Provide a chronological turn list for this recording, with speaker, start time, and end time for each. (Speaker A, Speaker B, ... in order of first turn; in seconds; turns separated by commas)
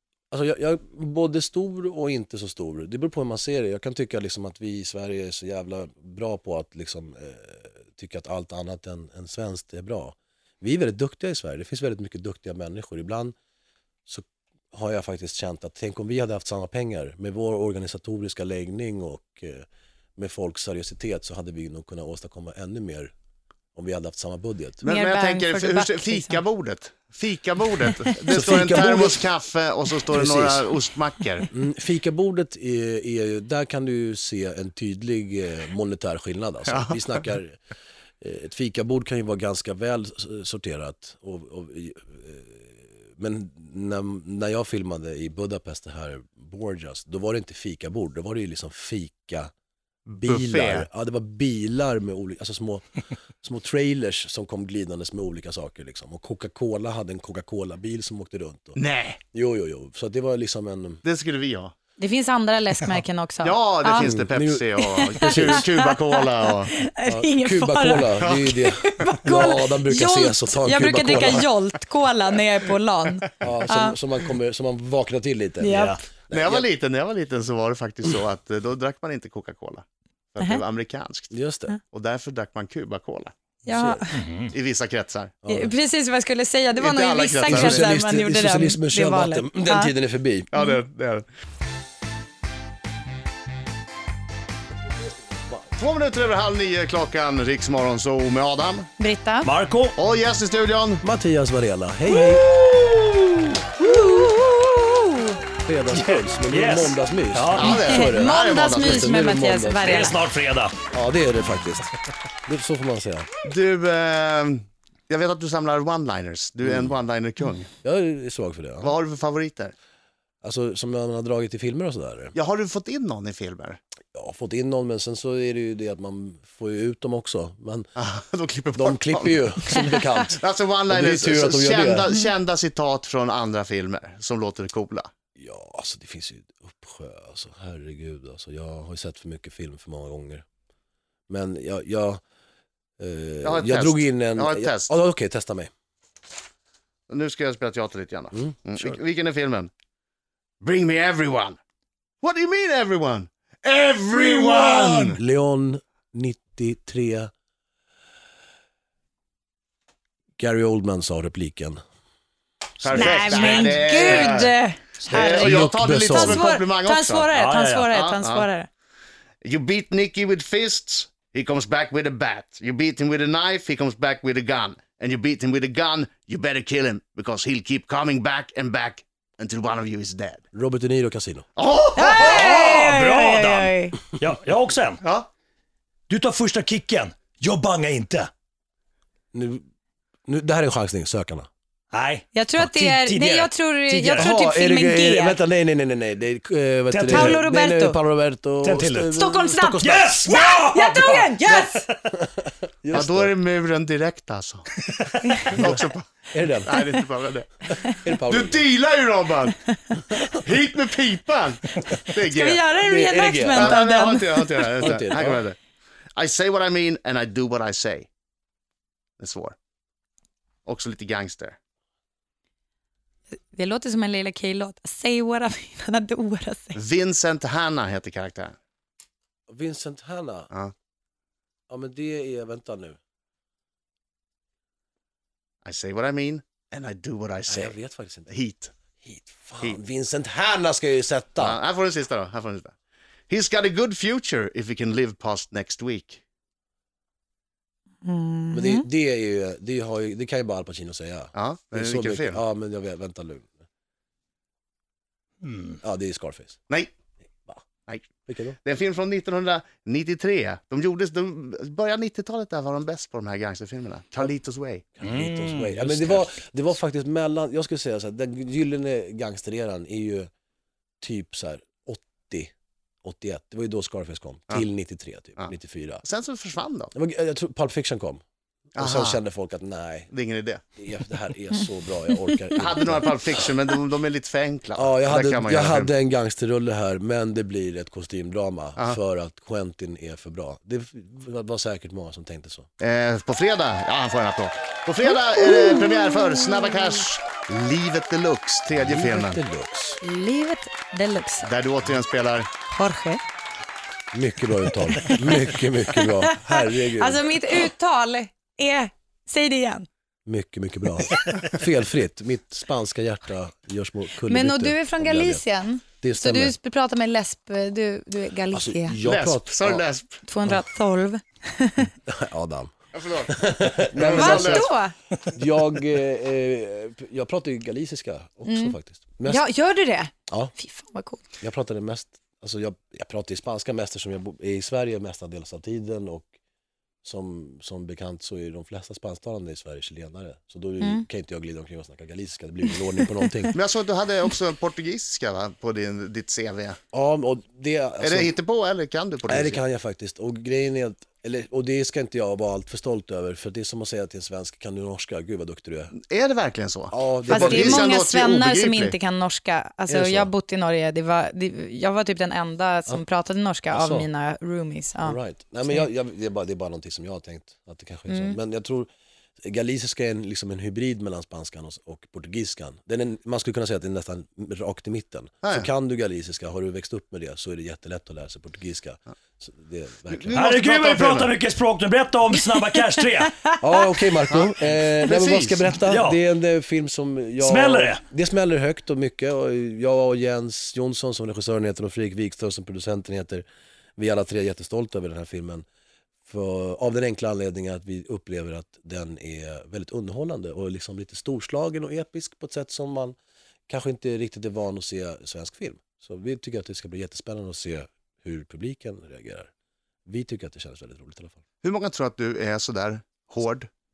Speaker A: 0.3-13.3, Speaker A: 14.1-19.6, Speaker A: 20.2-23.1, Speaker A: 23.7-24.8, Speaker B: 24.8-31.5, Speaker C: 24.8-26.4, Speaker A: 28.3-29.2, Speaker A: 30.1-30.7, Speaker A: 31.5-37.6, Speaker B: 36.7-37.0, Speaker A: 38.2-49.5, Speaker B: 50.1-50.9, Speaker A: 50.2-52.9, Speaker A: 53.4-58.8, Speaker B: 58.8-59.2, Speaker A: 59.3-61.0, Speaker B: 61.0-61.7, Speaker C: 62.0-64.1, Speaker B: 63.4-66.7, Speaker A: 64.0-65.6, Speaker C: 64.8-74.0, Speaker A: 67.0-71.5, Speaker B: 68.2-68.5, Speaker A: 73.4-76.7, Speaker C: 75.6-76.0, Speaker D: 75.7-76.0, Speaker B: 76.3-81.3, Speaker A: 81.3-81.7, Speaker B: 81.9-83.3, Speaker C: 83.7-84.2, Speaker A: 83.7-84.0, Speaker D: 84.1-84.5, Speaker B: 84.5-85.4, Speaker A: 85.4-85.7, Speaker C: 85.5-89.9, Speaker B: 86.8-87.9, Speaker A: 87.5-90.5, Speaker B: 90.5-91.2, Speaker B: 95.8-98.9, Speaker C: 99.0-99.5, Speaker D: 99.4-100.0, Speaker B: 100.0-101.0, Speaker A: 101.0-102.5, Speaker C: 103.8-105.4, Speaker A: 105.6-110.1, Speaker D: 105.9-107.8, Speaker B: 107.5-109.2, Speaker C: 107.9-110.2, Speaker D: 109.8-110.8, Speaker A: 110.9-111.9, Speaker A: 112.5-113.3, Speaker B: 113.4-117.7, Speaker A: 116.6-116.9, Speaker A: 117.8-118.9, Speaker B: 118.8-119.7, Speaker A: 120.4-122.3, Speaker B: 122.3-123.8, Speaker A: 124.1-127.9, Speaker B: 128.0-135.1, Speaker A: 128.7-132.1, Speaker A: 135.3-140.4, Speaker A: 141.3-142.2, Speaker A: 143.0-145.7, Speaker B: 143.4-144.9, Speaker B: 147.1-149.7, Speaker A: 148.3-149.0, Speaker B: 150.6-151.6, Speaker B: 152.2-155.2, Speaker A: 154.1-157.3, Speaker A: 160.4-161.8, Speaker B: 162.8-164.5, Speaker D: 162.9-164.2, Speaker C: 162.9-168.7, Speaker B: 165.1-167.3, Speaker A: 165.2-166.4, Speaker D: 167.3-167.9, Speaker B: 167.9-168.5, Speaker B: 169.4-180.4, Speaker A: 180.5-181.5, Speaker B: 181.6-182.7, Speaker C: 182.0-184.0, Speaker D: 182.2-185.0, Speaker B: 185.0-185.3, Speaker D: 186.1-188.3, Speaker A: 189.3-189.6, Speaker A: 190.2-191.5, Speaker D: 191.9-194.3, Speaker C: 192.3-195.4, Speaker A: 194.1-200.3, Speaker D: 196.9-197.4, Speaker C: 197.0-198.0, Speaker D: 198.6-199.1, Speaker C: 199.1-201.8, Speaker D: 199.8-201.9, Speaker A: 202.1-203.3, Speaker B: 202.9-204.7, Speaker B: 205.4-206.1, Speaker A: 205.5-206.8, Speaker B: 206.6-209.6, Speaker A: 207.9-208.6, Speaker B: 210.2-212.6, Speaker C: 212.3-214.7, Speaker A: 212.8-213.8, Speaker B: 213.5-215.6, Speaker A: 214.8-215.4, Speaker B: 216.2-218.1, Speaker B: 219.2-219.6, Speaker B: 220.7-221.6, Speaker C: 223.5-226.8, Speaker B: 226.8-228.6, Speaker A: 229.5-230.5, Speaker A: 231.7-233.0, Speaker B: 235.6-237.7, Speaker A: 237.5-238.3, Speaker B: 238.3-238.7, Speaker A: 239.0-241.6, Speaker B: 241.4-242.7, Speaker B: 243.3-246.2, Speaker C: 248.0-248.8, Speaker A: 248.5-253.6, Speaker B: 251.3-252.4, Speaker D: 255.4-255.8, Speaker A: 255.8-256.6, Speaker A: 258.2-258.6, Speaker B: 258.6-264.9, Speaker A: 265.0-270.3, Speaker D: 265.0-266.3, Speaker A: 271.0-272.5, Speaker A: 273.0-276.0, Speaker B: 276.0-276.9, Speaker A: 276.9-278.2, Speaker A: 278.8-280.1, Speaker B: 278.8-279.2, Speaker B: 280.1-280.6, Speaker A: 280.8-283.4, Speaker B: 282.5-285.9, Speaker A: 284.8-292.7, Speaker B: 292.8-299.4, Speaker A: 298.8-300.0, Speaker C: 300.0-301.5, Speaker B: 301.4-302.5, Speaker C: 302.7-303.2, Speaker A: 304.1-307.3, Speaker C: 305.0-309.9, Speaker A: 310.2-315.4, Speaker C: 314.3-319.0, Speaker A: 316.0-316.5, Speaker A: 318.5-319.8, Speaker B: 319.0-320.2, Speaker C: 320.2-321.9, Speaker A: 322.1-322.7, Speaker B: 322.9-324.7, Speaker A: 323.3-324.7, Speaker C: 324.1-324.9, Speaker A: 325.3-329.4, Speaker C: 328.4-331.2, Speaker A: 331.4-336.3, Speaker A: 337.0-343.5, Speaker B: 343.5-346.8, Speaker A: 346.9-348.3, Speaker B: 348.0-349.6, Speaker A: 349.3-355.9, Speaker B: 355.9-358.9, Speaker A: 356.9-357.9, Speaker C: 357.3-365.2, Speaker A: 359.9-360.3, Speaker A: 363.7-364.1, Speaker A: 365.0-368.9, Speaker C: 368.1-368.4, Speaker A: 369.4-380.4, Speaker B: 380.1-381.3, Speaker D: 380.3-383.4, Speaker A: 383.6-393.4, Speaker B: 384.3-385.7, Speaker D: 385.8-386.2, Speaker D: 387.4-388.0, Speaker A: 394.0-395.6, Speaker A: 396.2-403.1, Speaker A: 403.7-409.5, Speaker A: 410.1-411.4, Speaker B: 411.6-413.7